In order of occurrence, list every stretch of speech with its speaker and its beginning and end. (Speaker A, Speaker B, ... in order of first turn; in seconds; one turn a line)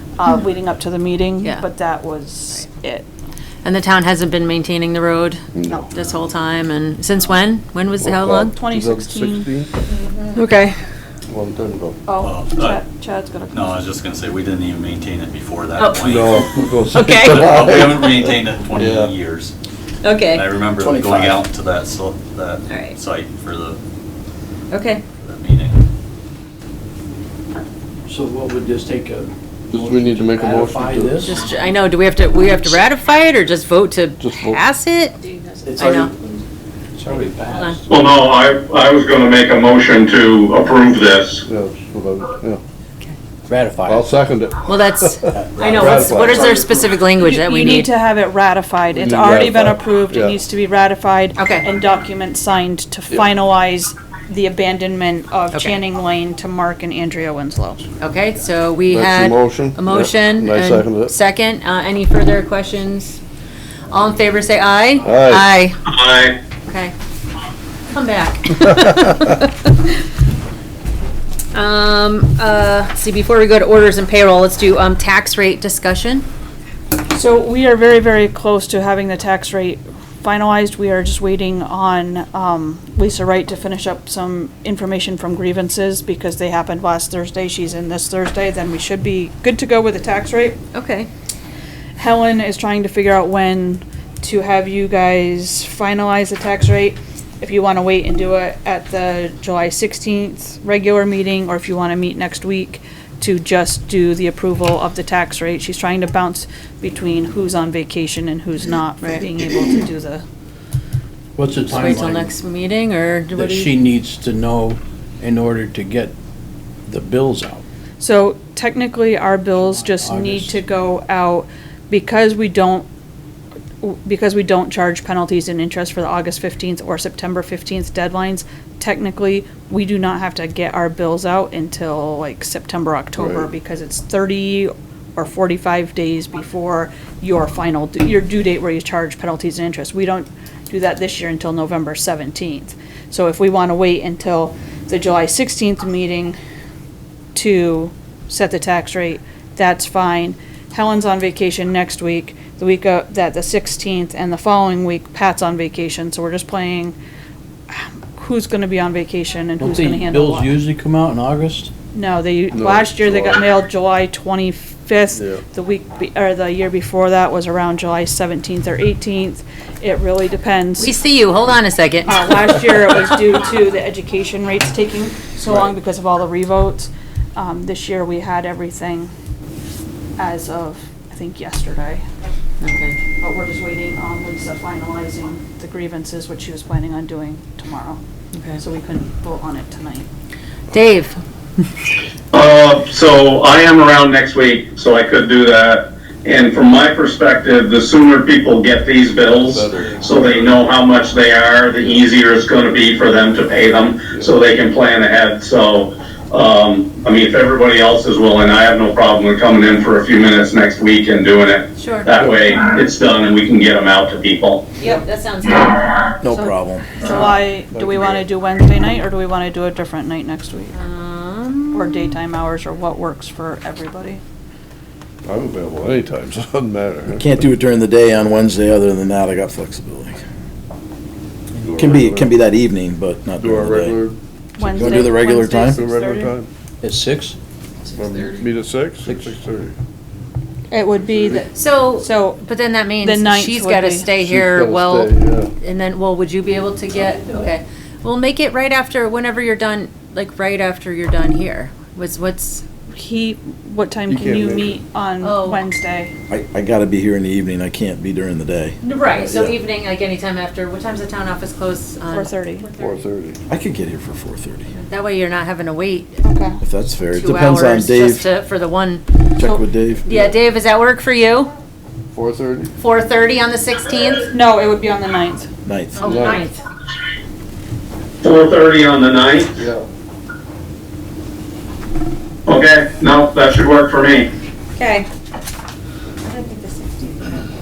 Speaker A: 0.2-3.1
Speaker B: 3.6-8.5
Speaker C: 5.5-5.8
Speaker C: 8.0-9.7
Speaker A: 8.5-9.5
Speaker B: 10.0-10.8
Speaker C: 11.3-12.1
Speaker A: 12.1-13.8
Speaker D: 12.2-12.8
Speaker D: 13.5-16.4
Speaker B: 15.8-18.3
Speaker C: 16.0-18.0
Speaker D: 17.2-19.5
Speaker C: 18.8-19.1
Speaker B: 20.0-20.5
Speaker D: 20.3-23.8
Speaker E: 20.8-21.4
Speaker B: 22.7-23.0
Speaker B: 24.7-25.0
Speaker D: 25.2-25.8
Speaker F: 28.1-31.6
Speaker C: 29.7-31.3
Speaker B: 31.2-36.1
Speaker C: 34.2-34.6
Speaker F: 35.7-36.4
Speaker F: 37.0-37.8
Speaker B: 37.5-37.8
Speaker G: 37.9-41.4
Speaker C: 41.5-42.6
Speaker F: 43.5-44.1
Speaker C: 43.9-46.8
Speaker B: 44.6-47.9
Speaker E: 45.5-46.4
Speaker A: 47.2-57.9
Speaker C: 48.9-50.4
Speaker B: 51.4-51.7
Speaker B: 58.0-63.2
Speaker C: 58.9-61.1
Speaker B: 63.9-65.8
Speaker C: 65.0-65.5
Speaker G: 65.9-66.4
Speaker B: 66.7-66.9
Speaker B: 67.9-69.4
Speaker B: 71.5-76.3
Speaker A: 77.1-90.6
Speaker B: 90.7-91.1
Speaker A: 92.0-110.2
Speaker F: 111.4-112.3
Speaker B: 111.7-113.8
Speaker F: 113.3-116.1
Speaker F: 116.9-117.6
Speaker A: 118.0-122.9
Speaker F: 119.6-120.6
Speaker A: 123.8-146.4
Speaker C: 133.2-133.5
Speaker A: 147.3-157.0
Speaker A: 157.7-160.6
Speaker F: 159.6-161.7
Speaker A: 161.9-170.9
Speaker C: 162.5-163.4
Speaker C: 165.1-165.4
Speaker B: 170.8-173.1
Speaker A: 172.1-179.1
Speaker A: 180.2-182.0
Speaker B: 182.6-183.0
Speaker A: 183.2-188.0
Speaker A: 188.6-190.1
Speaker B: 190.7-191.2
Speaker G: 192.3-214.7
Speaker C: 199.4-200.7
Speaker B: 211.8-212.1
Speaker B: 214.8-216.5
Speaker E: 216.2-216.9
Speaker A: 217.0-220.8
Speaker C: 217.7-218.2
Speaker B: 220.7-222.2
Speaker A: 221.7-224.2
Speaker C: 225.2-227.3
Speaker E: 227.1-230.2
Speaker C: 231.6-232.3
Speaker E: 231.8-234.0
Speaker C: 233.4-234.2
Speaker A: 234.6-236.3
Speaker F: 234.6-235.1
Speaker E: 234.7-235.8
Speaker C: 235.7-236.5
Speaker F: 236.8-237.4
Speaker C: 237.9-239.8
Speaker B: 237.9-238.4
Speaker F: 239.0-239.4
Speaker A: 240.7-242.4
Speaker C: 241.0-241.4
Speaker B: 241.5-252.7
Speaker A: 243.0-244.1
Speaker C: 244.2-245.5
Speaker A: 252.9-256.1
Speaker C: 254.1-254.8
Speaker B: 255.2-255.6
Speaker E: 256.3-259.5
Speaker B: 258.8-262.9
Speaker A: 262.1-262.7
Speaker C: 262.8-263.4
Speaker E: 263.5-264.7
Speaker B: 264.7-266.2
Speaker A: 266.2-266.6
Speaker E: 266.6-268.3
Speaker B: 267.1-271.5
Speaker E: 269.4-270.2
Speaker C: 272.1-272.7
Speaker B: 272.8-274.3
Speaker A: 274.3-275.5
Speaker E: 275.6-276.1
Speaker B: 276.0-276.6
Speaker C: 276.0-276.4
Speaker G: 278.2-279.6
Speaker C: 279.6-279.9
Speaker G: 282.5-284.3
Speaker B: 284.8-285.1
Speaker B: 286.2-287.5